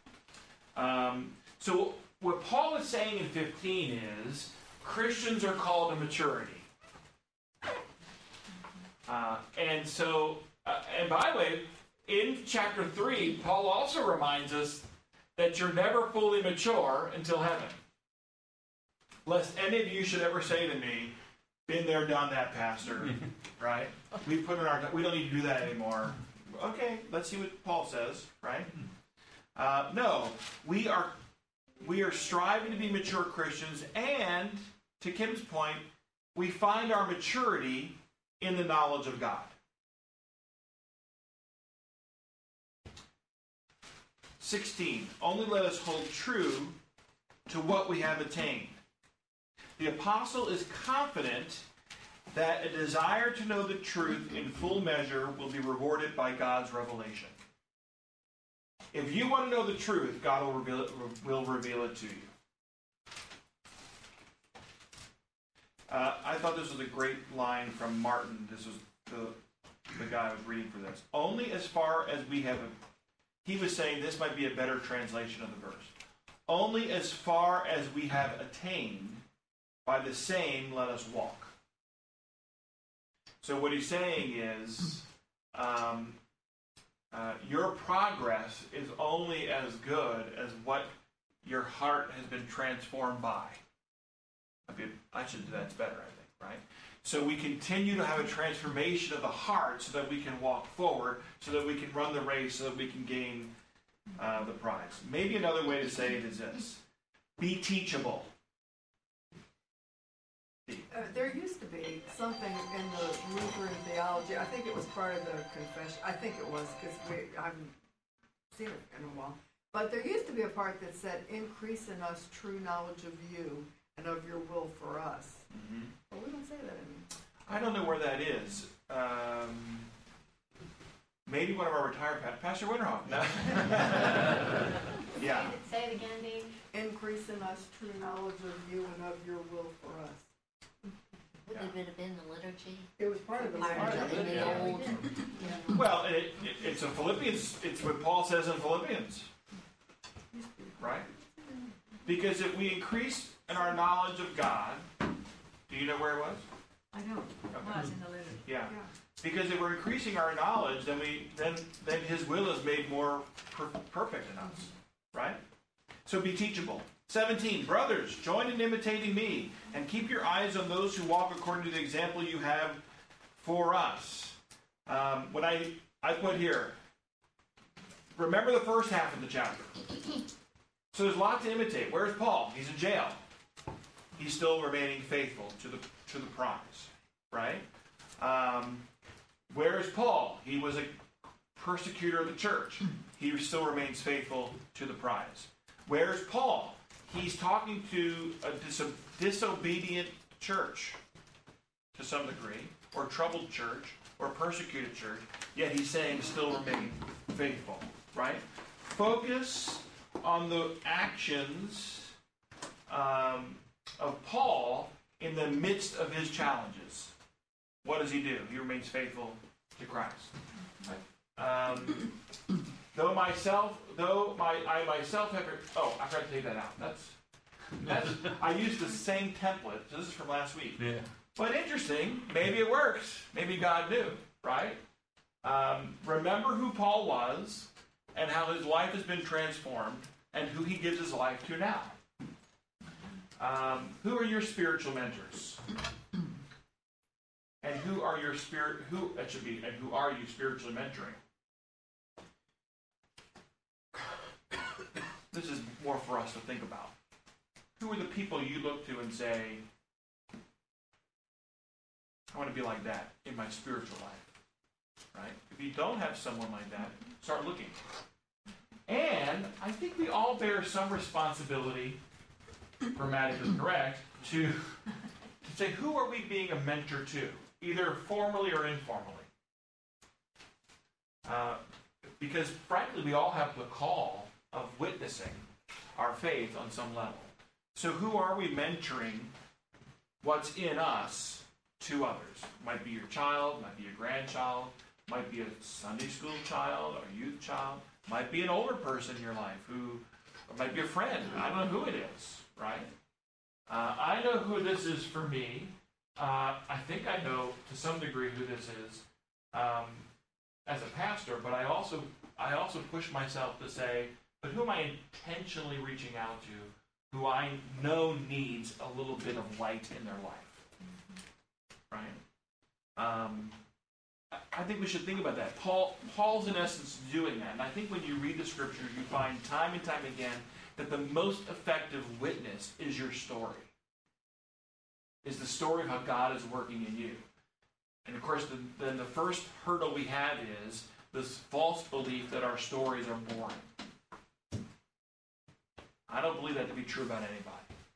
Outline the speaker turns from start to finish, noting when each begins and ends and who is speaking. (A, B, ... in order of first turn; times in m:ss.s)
0:00.7-0:06.7 A
0:09.0-0:17.8 A
0:19.2-0:21.1 A
0:21.6-0:28.7 A
0:29.5-0:31.2 A
0:31.8-0:39.5 A
0:44.4-0:46.7 A
0:47.5-0:48.8 A
0:49.8-0:51.6 A
0:52.3-0:57.3 A
0:58.9-1:02.3 A
1:05.9-1:09.4 A
1:09.9-1:12.8 A
1:13.4-1:15.9 A
1:16.5-1:19.2 A
1:19.8-1:21.5 A
1:23.4-1:26.2 A
1:27.1-1:30.9 A
1:31.4-1:33.6 A
1:34.7-1:43.5 A
1:44.2-1:46.8 A
1:47.4-1:48.3 A
1:50.9-1:57.7 B
1:58.5-2:05.4 B
2:05.5-2:05.9 A
2:06.1-2:07.0 B
2:07.5-2:09.9 A
2:11.2-2:14.4 A
2:15.2-2:15.6 A
2:15.3-2:16.5 C
2:16.7-2:20.3 B
2:21.4-2:21.8 B
2:21.5-2:22.9 D
2:23.0-2:25.6 B
2:23.4-2:25.6 D
2:23.6-2:24.7 C
2:25.7-2:29.3 A
2:30.3-2:31.0 B
2:30.8-2:31.0 A
2:32.0-2:34.8 A
2:35.7-2:36.4 A
2:36.9-2:37.7 B
2:37.5-2:37.8 A
2:38.4-2:45.4 A
2:46.0-2:52.8 A
2:53.4-2:56.8 A
2:58.1-2:59.9 A
3:00.9-3:03.2 A
3:04.2-3:07.6 A
3:08.2-3:08.8 A
3:09.5-3:21.0 A
3:21.9-3:32.1 A
3:32.9-3:37.1 A
3:37.8-3:42.1 A
3:42.9-3:47.2 A
3:47.8-3:54.8 A
3:55.4-4:02.0 A
4:03.4-4:05.6 A
4:07.6-4:11.2 A
4:15.3-4:16.9 A
4:17.8-4:19.6 A
4:22.3-4:24.3 A
4:25.1-4:27.8 A
4:28.9-4:32.0 A
4:32.9-4:34.8 A
4:35.4-4:39.3 A
4:41.2-4:41.6 A
4:42.2-4:45.4 A
4:46.0-4:49.3 A
4:50.2-5:02.9 A
5:03.7-5:10.1 A
5:10.6-5:20.6 A
5:21.9-5:22.2 A
5:23.0-5:23.6 A
5:24.3-5:33.7 A
5:35.2-5:37.2 A
5:38.0-5:43.7 A
5:46.1-5:47.7 A